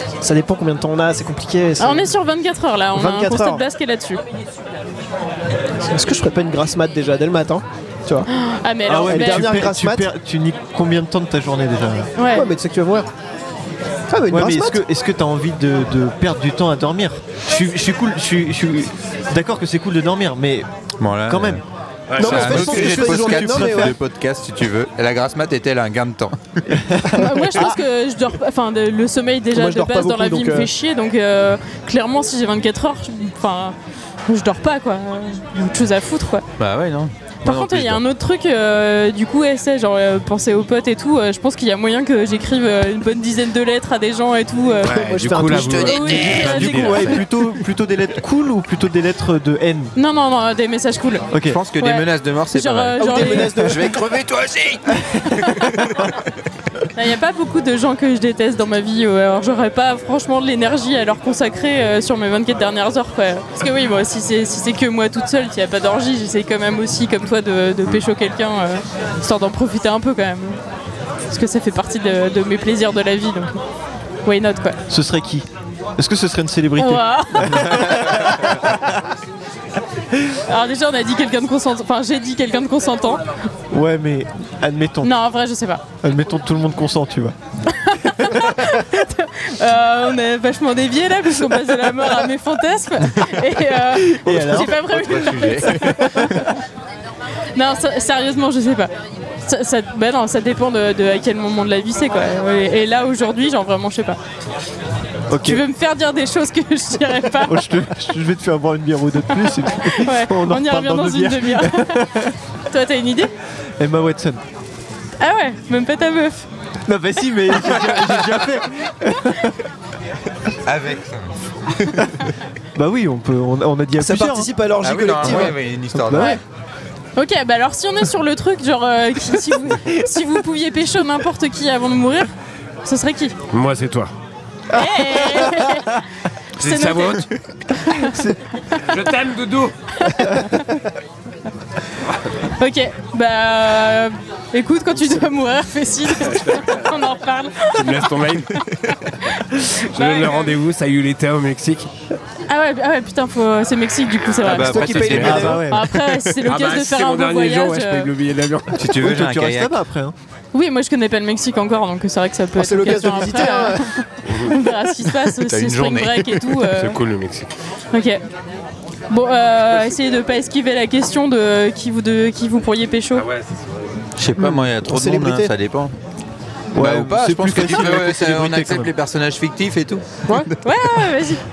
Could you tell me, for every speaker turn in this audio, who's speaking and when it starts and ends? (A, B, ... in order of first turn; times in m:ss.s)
0:00.2-0:02.1 A
0:01.8-0:04.2 B
0:02.9-0:03.6 A
0:05.9-0:08.3 A
0:08.3-0:09.5 B
0:08.9-0:12.1 C
0:09.0-0:10.1 A
0:12.2-0:12.5 B
0:12.2-0:13.1 A
0:14.1-0:14.8 A
0:14.3-0:20.7 C
0:21.0-0:21.6 D
0:21.2-0:21.6 C
0:22.1-0:22.7 E
0:22.1-0:26.6 D
0:22.2-0:24.0 A
0:22.2-0:23.9 C
0:27.1-0:33.8 B
0:27.2-0:27.8 A
0:29.5-0:30.7 A
0:34.3-0:36.4 B
0:36.6-0:38.0 D
0:37.4-0:45.0 B
0:44.8-0:47.2 E
0:44.9-0:46.3 A
0:45.5-0:47.0 D
0:45.6-0:47.2 B
0:46.4-0:49.9 C
0:49.9-0:51.2 B
0:51.3-0:51.6 C
0:51.5-0:56.1 D
0:51.8-0:53.8 B
0:53.0-0:54.0 A
0:56.9-1:10.6 B
1:11.3-1:13.5 B
1:14.2-1:14.8 B
1:14.9-1:18.7 C
1:16.8-1:18.0 B
1:20.5-1:23.2 B
1:23.7-1:25.1 C
1:25.0-1:25.8 B
1:26.0-1:27.3 C
1:27.7-1:36.5 B
1:34.1-1:34.7 C
1:34.5-1:36.3 D
1:37.6-1:38.9 B
1:39.4-1:44.2 B
1:45.3-1:45.6 C
1:45.4-1:47.6 B
1:47.4-1:52.3 C
1:49.7-1:52.1 B
1:52.7-1:53.3 B
1:53.8-1:54.4 C
1:55.2-1:56.5 B
1:56.9-1:59.5 C
2:00.6-2:01.3 D
2:02.8-2:04.5 C
2:04.0-2:06.3 A
2:04.8-2:06.4 D
2:05.2-2:05.5 C
2:06.1-2:06.4 B
2:07.2-2:12.3 B
2:12.8-2:13.3 B
2:13.5-2:14.1 E
2:14.7-2:16.0 B
2:16.6-2:18.2 B
2:16.6-2:17.3 E
2:18.8-2:19.7 E
2:20.0-2:20.7 B
2:22.6-2:28.1 B
2:26.3-2:26.8 E
2:27.7-2:28.9 E
2:29.7-2:31.9 E
2:29.9-2:30.5 B
2:32.5-2:38.1 B
2:34.4-2:35.6 D
2:34.5-2:35.8 A
2:35.0-2:35.8 C
2:36.4-2:38.8 E
2:38.8-2:39.8 D
2:38.9-2:40.1 C
2:40.5-2:47.0 B
2:42.6-2:44.0 A
2:44.2-2:44.5 E
2:45.4-2:46.4 D
2:46.7-2:47.5 E
2:47.9-2:48.2 B
2:49.1-2:53.2 B
2:53.1-2:53.9 E
2:54.2-2:55.9 D
2:54.4-2:55.5 A
2:56.7-2:58.9 C
2:56.8-3:00.5 D
3:00.3-3:01.4 B